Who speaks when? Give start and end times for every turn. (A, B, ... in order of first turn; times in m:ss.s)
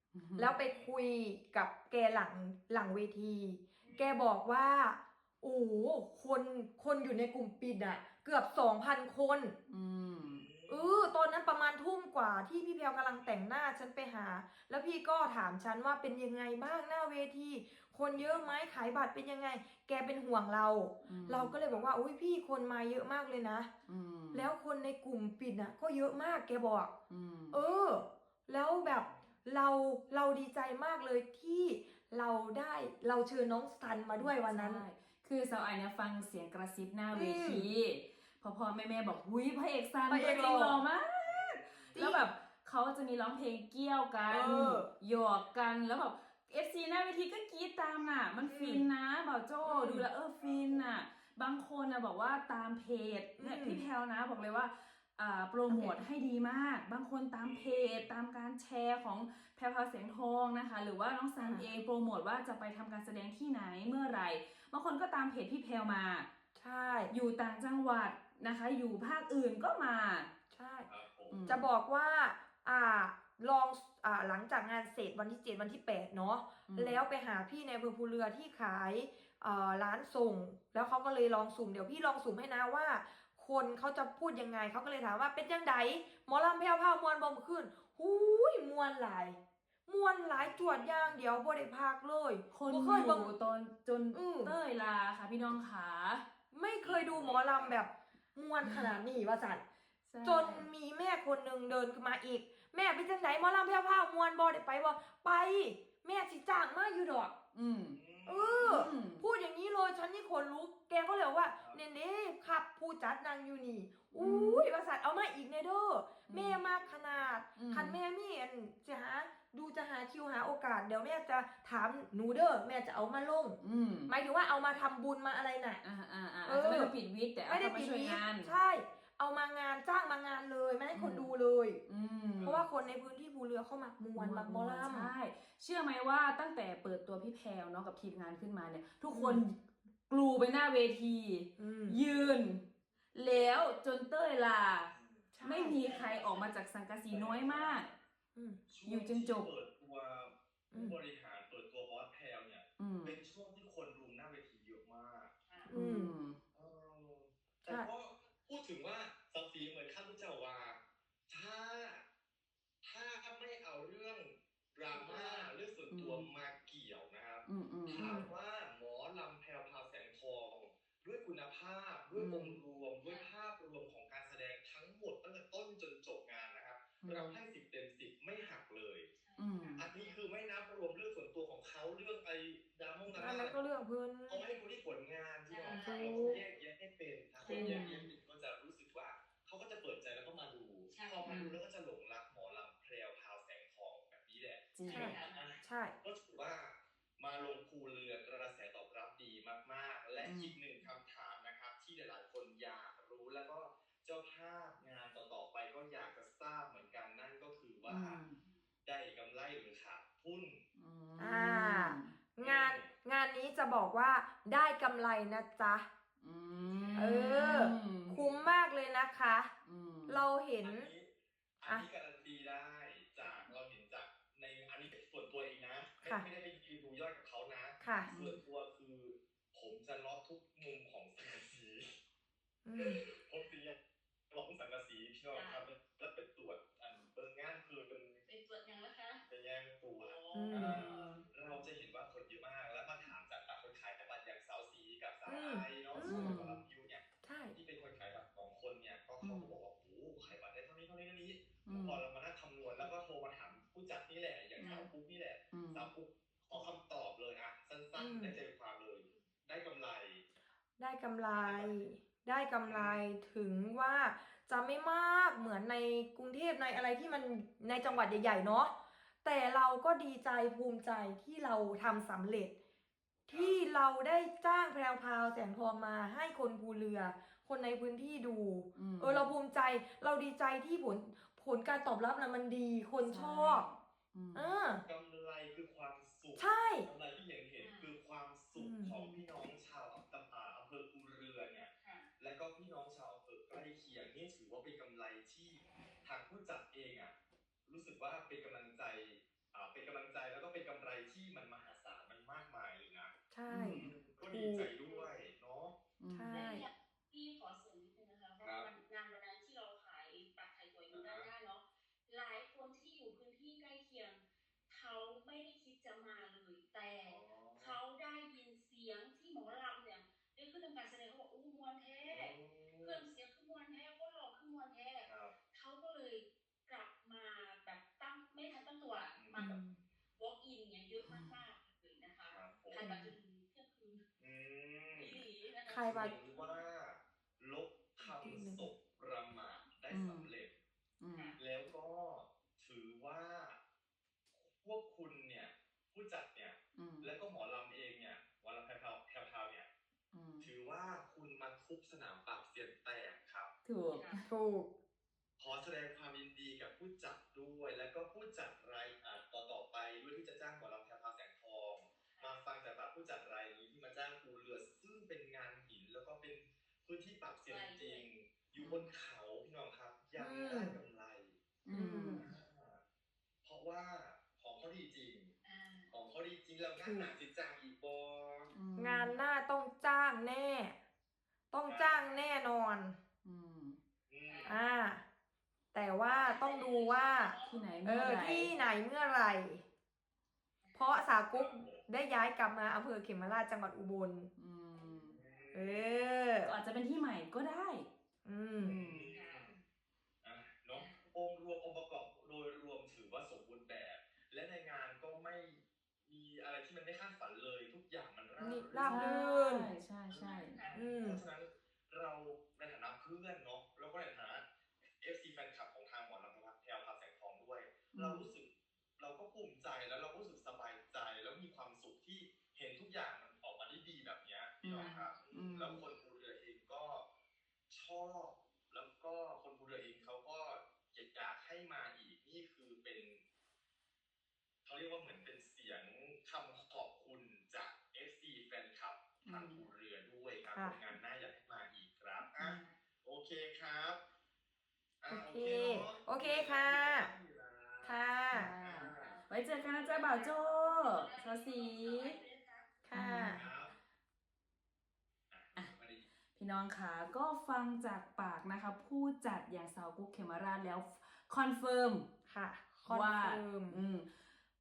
0:00.1-0:00.5 A
0:00.4-0:09.6 B
0:00.6-0:00.9 C
0:03.8-0:04.2 C
0:09.7-0:10.5 A
0:10.2-0:11.2 C
0:10.7-0:23.7 B
0:13.2-0:13.4 C
0:18.2-0:18.6 C
0:21.0-0:21.5 A
0:21.6-0:21.9 C
0:23.9-0:24.5 A
0:24.3-0:26.9 B
0:27.1-0:27.6 A
0:27.5-0:34.8 B
0:28.8-0:29.3 C
0:34.2-1:06.3 A
0:37.1-0:37.7 B
0:40.1-0:40.8 B
0:41.2-0:42.2 C
0:41.9-0:42.2 B
0:44.3-0:44.9 B
0:48.4-0:48.9 B
0:49.6-0:50.1 B
0:50.4-0:50.9 C
0:53.4-0:53.8 B
0:55.7-0:56.1 B
0:57.4-0:58.1 C
1:01.4-1:01.7 B
1:06.6-1:07.1 B
1:07.1-1:10.3 A
1:10.5-1:10.9 B
1:10.9-1:11.5 C
1:11.3-1:11.7 A
1:11.5-1:33.3 B
1:16.7-1:17.0 A
1:30.3-1:31.2 C
1:32.5-1:36.2 A
1:34.1-1:34.5 B
1:36.5-1:39.6 B
1:36.8-1:37.8 C
1:40.1-1:40.7 A
1:40.2-1:47.3 B
1:47.5-1:48.0 A
1:47.9-1:48.8 C
1:48.3-2:05.8 B
1:48.6-1:49.2 A
1:51.6-1:51.8 C
1:54.1-1:54.6 A
1:56.3-1:56.6 A
1:56.7-1:57.3 C
1:57.6-1:58.0 A
2:03.6-2:04.1 A
2:05.8-2:08.5 A
2:06.4-2:11.8 B
2:10.9-2:11.3 A
2:11.9-2:12.6 A
2:12.4-2:12.7 C
2:12.4-2:15.1 B
2:14.2-2:19.6 A
2:19.1-2:19.4 B
2:20.1-2:27.9 A
2:21.6-2:22.0 B
2:23.3-2:23.7 D
2:24.9-2:25.3 C
2:25.4-2:26.2 B
2:25.7-2:26.6 D
2:27.1-2:28.0 C
2:28.4-2:28.6 B
2:28.7-2:35.3 C
2:28.9-2:29.5 A
2:30.7-2:31.0 B
2:32.8-2:33.2 A
2:35.5-2:35.7 D
2:35.7-2:36.1 B
2:35.7-2:36.4 A
2:36.5-2:42.1 C
2:37.6-2:37.9 B
2:42.8-2:59.1 C
2:44.9-2:45.5 D
2:45.9-2:46.3 A
2:47.4-2:48.1 A
2:48.0-2:48.3 B
2:52.2-2:52.6 A
2:53.0-2:53.3 D
2:57.0-2:57.4 A
2:59.2-3:00.1 D
2:59.4-2:59.8 A
2:59.8-3:03.6 C
3:03.1-3:04.4 B
3:04.3-3:28.2 C
3:05.5-3:06.4 D
3:05.6-3:06.4 B
3:07.4-3:07.9 D
3:07.5-3:08.1 A
3:10.9-3:11.6 D
3:14.8-3:15.1 A
3:14.8-3:15.4 D
3:14.9-3:16.0 B
3:20.2-3:20.6 A
3:27.9-3:28.4 A
3:28.9-3:30.6 C
3:30.8-3:32.2 A
3:31.2-3:35.9 B
3:32.4-3:32.9 C
3:36.2-3:38.2 A
3:36.6-3:37.7 C
3:37.0-3:39.5 B
3:39.6-3:40.2 A
3:40.1-3:40.9 B
3:40.6-3:41.1 C
3:41.6-3:52.0 C
3:47.8-3:48.1 B
3:48.1-3:48.4 A
3:52.6-3:53.0 B
3:52.8-3:53.8 C
3:54.3-3:58.2 C
3:55.3-3:55.6 D
3:58.3-3:59.3 D
3:59.3-4:20.2 C
4:00.0-4:01.3 D
4:00.3-4:01.2 B
4:05.3-4:06.6 B
4:06.0-4:06.6 A
4:07.2-4:07.6 B
4:09.2-4:09.5 A
4:11.7-4:12.0 A
4:14.6-4:14.9 A
4:15.5-4:15.9 A
4:18.0-4:18.4 B
4:20.8-4:32.5 B
4:21.4-4:21.8 C
4:22.7-4:23.0 C
4:33.3-4:43.7 B
4:33.3-4:33.6 C
4:38.8-4:39.3 A
4:43.0-4:44.5 A
4:44.3-4:44.8 B
4:44.8-4:57.1 C
4:46.4-4:46.9 B
4:47.6-4:48.0 D
4:48.5-4:49.0 B
4:51.8-4:52.1 D
4:57.7-5:05.8 C
5:03.3-5:04.7 B
5:06.0-5:06.5 A
5:06.1-5:06.7 B
5:06.3-5:29.6 D
5:08.4-5:08.7 C
5:10.9-5:11.3 C
5:17.0-5:17.8 C
5:22.1-5:23.0 C
5:25.0-5:25.4 C
5:29.2-5:29.5 C
5:29.4-5:29.8 B
5:30.2-5:34.0 D
5:31.0-5:31.3 A
5:32.3-5:32.8 C
5:34.2-5:35.2 C
5:34.9-5:36.6 D
5:35.7-5:36.2 B
5:35.8-5:40.6 C
5:38.0-5:38.7 B
5:39.9-5:40.3 A
5:41.0-5:41.4 A
5:41.1-5:41.4 D
5:41.4-5:43.6 C
5:44.4-5:49.7 C
5:46.8-5:47.1 A
5:50.1-5:50.5 A
5:50.4-5:53.5 C
5:53.6-5:54.2 A
5:53.9-5:54.2 D
5:54.3-5:54.7 B
5:55.4-6:11.4 C
6:07.5-6:08.1 D
6:08.6-6:08.9 A
6:10.2-6:10.8 B
6:11.7-6:12.3 A
6:11.7-6:12.2 B
6:12.1-6:12.8 C
6:13.4-6:15.3 C
6:15.4-6:16.0 D
6:15.9-6:18.5 C
6:16.8-6:17.1 B
6:18.5-6:19.2 A
6:18.8-6:20.8 B
6:21.5-6:23.0 B
6:21.7-6:22.2 C
6:23.2-6:23.8 A
6:24.1-6:24.6 C
6:24.2-6:24.6 D
6:24.5-6:25.0 B
6:25.7-6:29.6 B
6:26.1-6:28.8 D
6:27.4-6:28.5 A
6:30.6-6:31.0 D
6:30.8-6:34.3 B
6:31.3-6:31.9 C
6:34.4-6:35.2 A
6:34.8-6:36.1 C
6:35.5-6:36.5 B
6:36.4-6:37.9 A
6:38.2-6:38.8 B
6:38.6-6:39.6 C
6:38.6-6:39.1 A
6:39.1-6:39.6 D
6:40.2-6:49.2 C
6:40.7-6:41.1 D
6:48.4-6:49.7 B
6:48.8-6:50.6 A
6:50.1-6:54.4 C
6:50.2-6:50.8 D
6:50.8-6:51.2 B
6:55.0-7:07.1 C
6:57.9-6:58.3 A
7:04.6-7:05.8 A
7:04.8-7:05.0 D
7:07.7-7:13.2 C
7:14.6-7:24.0 C
7:19.3-7:19.6 A
7:20.5-7:20.8 B
7:22.4-7:22.6 A
7:25.0-7:29.2 C
7:25.1-7:27.1 B
7:27.8-7:28.5 B
7:28.3-7:32.2 A
7:28.9-7:32.8 D
7:32.9-7:33.5 B
7:32.9-7:33.4 A
7:33.2-7:33.8 C
7:35.3-7:36.1 C
7:36.4-7:42.1 A
7:42.3-7:43.8 B
7:42.9-7:44.1 A